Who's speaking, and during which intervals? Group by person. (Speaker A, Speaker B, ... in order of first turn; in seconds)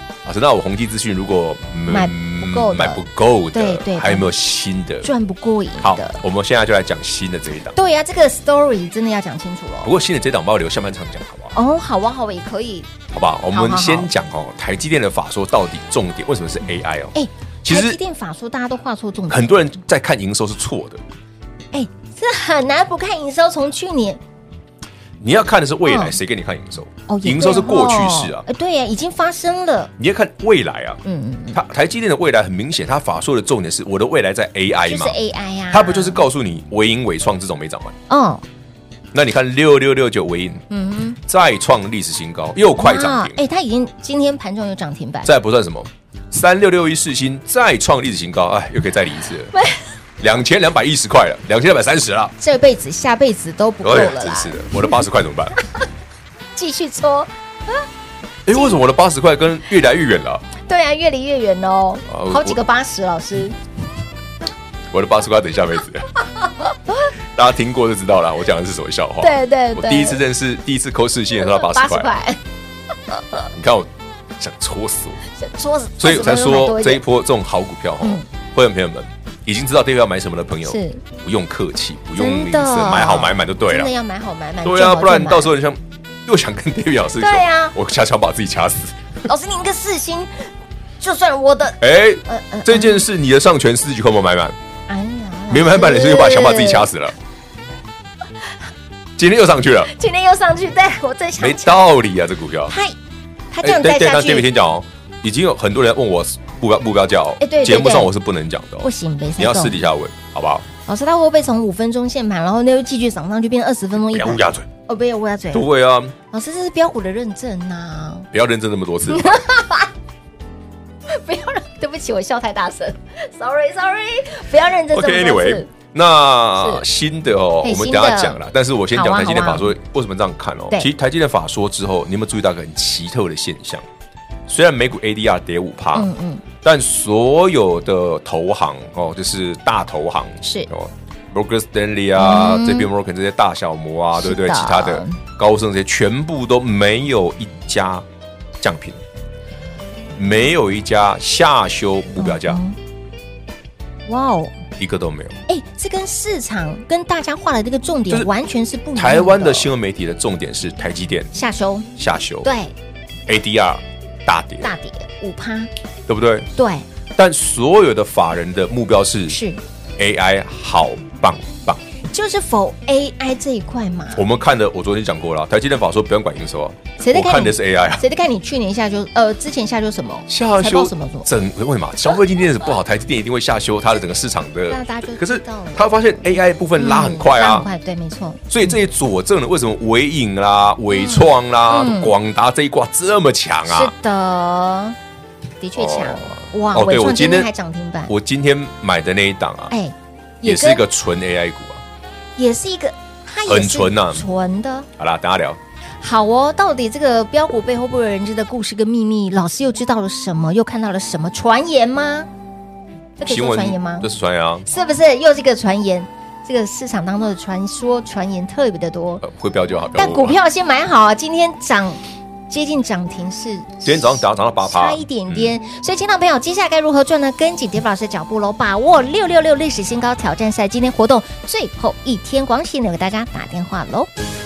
Speaker A: 0.2-5.1, 5.8-7.8, 9.8-11.5, 13.1-18.0, 19.3-21.0, 25.2-28.4, 30.0-31.0, 31.5-35.2, 35.7-38.0, 39.1-40.6, 41.2-43.4, 45.2-49.5, 50.2-52.3, 53.8-55.6, 58.5-60.5, 62.1-62.6, 64.9-66.1, 67.3-72.1, 73.5-75.2, 76.0-83.9, 84.6-89.0, 91.8-94.5, 95.5-97.1, 99.2-99.9, 101.4-102.7, 103.6-110.7, 114.1-114.7, 115.5-116.1, 118.3-119.4, 124.9-133.8, 134.5-136.1, 136.6-148.1, 148.6-149.0, 150.2-152.6, 154.8-155.4, 158.9-161.3, 162.0-162.5, 163.3-164.7, 166.1-166.5, 167.2-169.4, 170.0-171.8, 174.1-178.0, 180.3-187.7, 188.5-193.9, 195.8-197.5, 198.1-199.7, 200.4-201.8, 203.4-204.2, 205.0-205.6, 213.3-214.7, 219.2-220.4, 223.8-225.5
Speaker B: 1.9-4.3, 5.0-6.2, 7.7-9.9, 11.5-12.9, 13.5-14.1, 17.1-19.6, 21.7-24.2, 25.9-26.2, 27.1-29.9, 31.0-31.6, 34.8-36.2, 38.1-38.4, 40.7-41.2, 42.8-45.3, 49.5-49.8, 52.4-54.7, 56.5-57.8, 60.6-63.5, 69.2-70.2, 71.4-72.4, 75.3-77.0, 78.0-78.3, 80.6-81.0, 82.2-85.5, 87.2-87.8, 89.2-93.0, 94.9-96.9, 99.9-101.9, 102.7-103.0, 103.5-104.5, 107.4-108.1, 108.8-109.8, 110.8-115.7, 116.3-118.3, 119.1-119.9, 121.1-125.7, 126.6-126.8, 127.6-128.4, 128.9-129.7, 135.9-136.4, 140.4-140.7, 142.2-142.9, 144.2-145.2, 152.2-152.8, 154.1-154.6, 155.5-159.7, 161.3-161.9, 162.4-162.7, 164.6-165.7, 166.6-166.8, 169.3-169.6, 172.1-174.2, 177.0-181.3, 184.7-186.2, 186.8-188.4, 190.9-192.1, 193.7-194.9, 195.6-198.1, 199.7-200.8, 202.4-204.9, 206.0-212.3, 213.2-214.1, 214.7-219.2, 219.9-234.1